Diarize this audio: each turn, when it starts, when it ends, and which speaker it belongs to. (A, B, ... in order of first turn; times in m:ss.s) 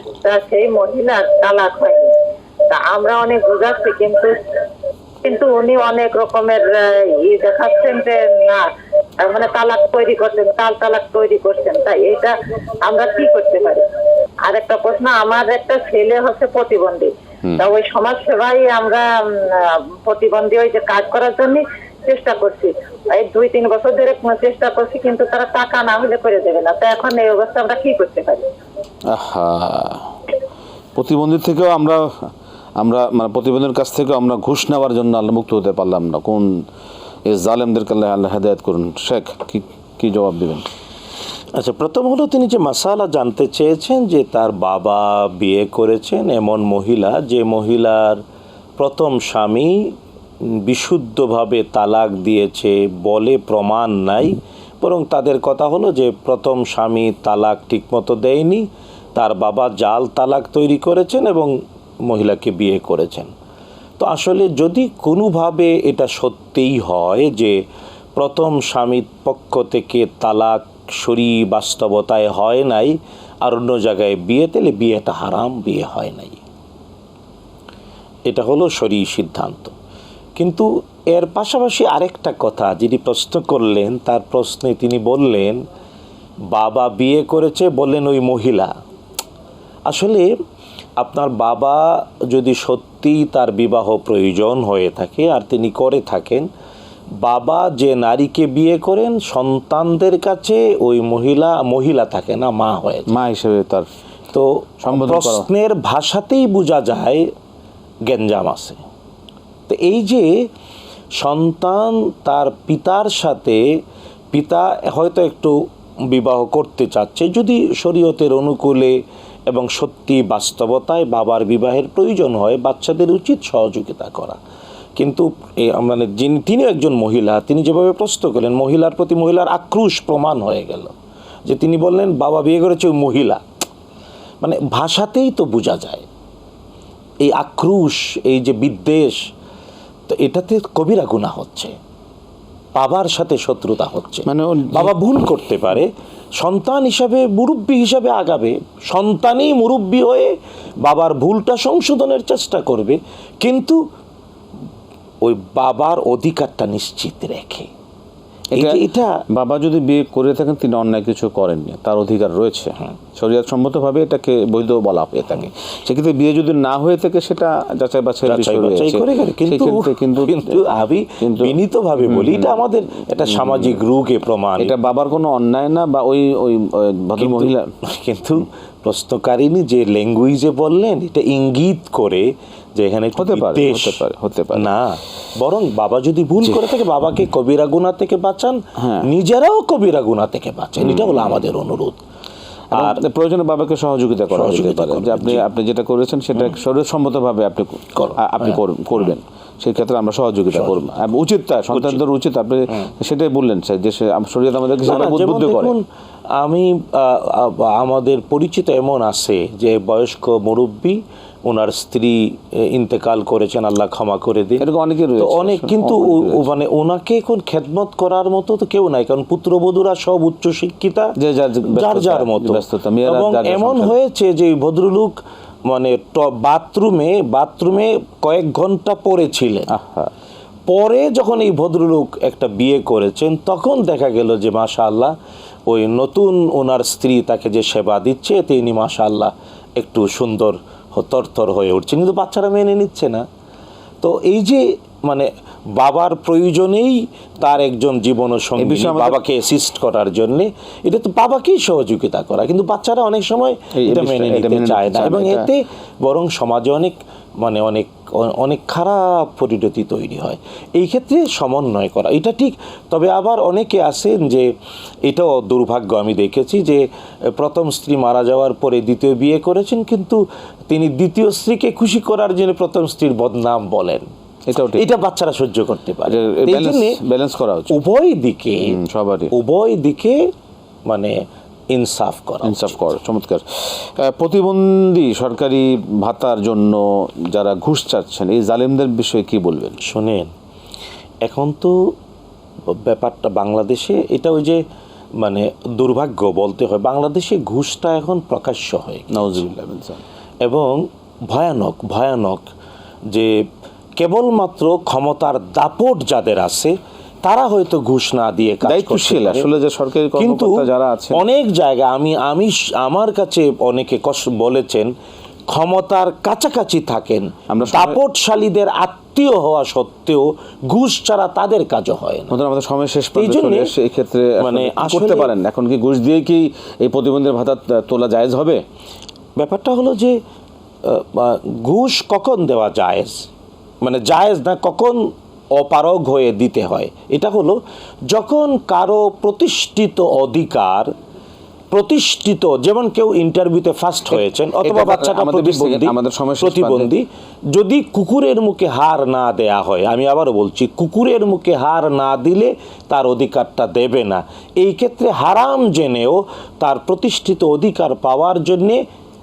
0:00.2-0:02.1 A
0:02.7-0:04.4 A
0:05.2-0:13.8 A
0:14.4-0:28.4 A
0:29.1-0:30.1 B
0:31.0-0:36.5 B
0:37.2-0:40.6 B
0:41.5-0:48.2 C
0:48.8-0:49.8 C
0:50.6-1:01.5 C
1:02.0-1:03.3 C
1:04.0-1:07.6 C
1:08.2-1:16.4 C
1:18.3-1:19.7 C
1:20.4-1:25.6 C
1:26.5-1:28.7 C
1:29.9-1:30.3 C
1:31.0-1:36.5 C
1:37.2-1:43.1 C
1:43.1-1:43.8 B
1:44.3-1:47.2 C
1:44.8-1:45.5 B
1:48.1-1:48.8 C
1:49.7-1:50.3 C
1:51.2-1:53.6 C
1:54.3-1:55.6 C
1:56.1-1:58.9 C
1:59.5-2:04.4 C
2:05.0-2:10.9 C
2:11.4-2:13.4 C
2:14.4-2:16.0 C
2:17.2-2:19.2 C
2:20.1-2:21.8 C
2:22.8-2:33.8 C
2:24.2-2:24.9 B
2:35.2-2:37.7 C
2:38.5-2:50.6 B
2:38.5-2:39.2 C
2:48.3-2:54.7 C
2:51.2-2:53.8 B
2:54.6-2:57.7 B
2:57.2-3:12.0 C
3:03.2-3:04.7 B
3:06.4-3:06.7 B
3:08.8-3:09.1 B
3:10.8-3:11.4 B
3:12.7-3:13.0 C
3:12.7-3:25.7 B
3:14.3-3:15.4 C
3:17.9-3:19.1 C
3:20.5-3:20.9 C
3:21.7-3:22.0 C
3:24.8-3:25.8 C
3:26.4-3:34.7 C
3:34.6-3:36.5 B
3:35.2-3:41.1 C
3:41.2-3:44.0 B
3:41.7-3:49.7 C
3:49.7-3:50.1 B
3:50.7-3:55.1 C
3:55.7-4:03.2 C
4:04.0-4:24.5 C
4:08.6-4:09.2 B
4:13.7-4:15.5 B
4:25.0-4:34.0 C
4:34.5-4:34.8 B
4:34.7-4:37.0 C
4:36.1-4:37.8 B
4:37.7-4:38.8 C
4:38.6-4:39.3 B
4:39.3-4:40.2 C
4:40.9-4:41.1 C
4:41.7-4:43.0 C
4:42.4-4:49.8 B
4:49.8-4:50.3 C
4:51.2-4:51.8 C
4:52.8-4:54.6 C
4:55.2-4:59.4 C
4:59.1-5:00.0 B
5:00.4-5:02.5 C
5:04.0-5:09.5 C
5:08.6-5:11.2 B
5:10.1-5:14.9 C
5:15.5-5:22.4 C
5:17.5-5:18.0 B
5:22.3-5:28.6 B
5:23.2-5:23.7 C
5:24.4-5:25.3 C
5:29.4-5:30.2 C
5:30.8-5:33.2 C
5:33.8-5:40.9 C
5:41.7-5:58.8 C
5:44.1-5:46.9 B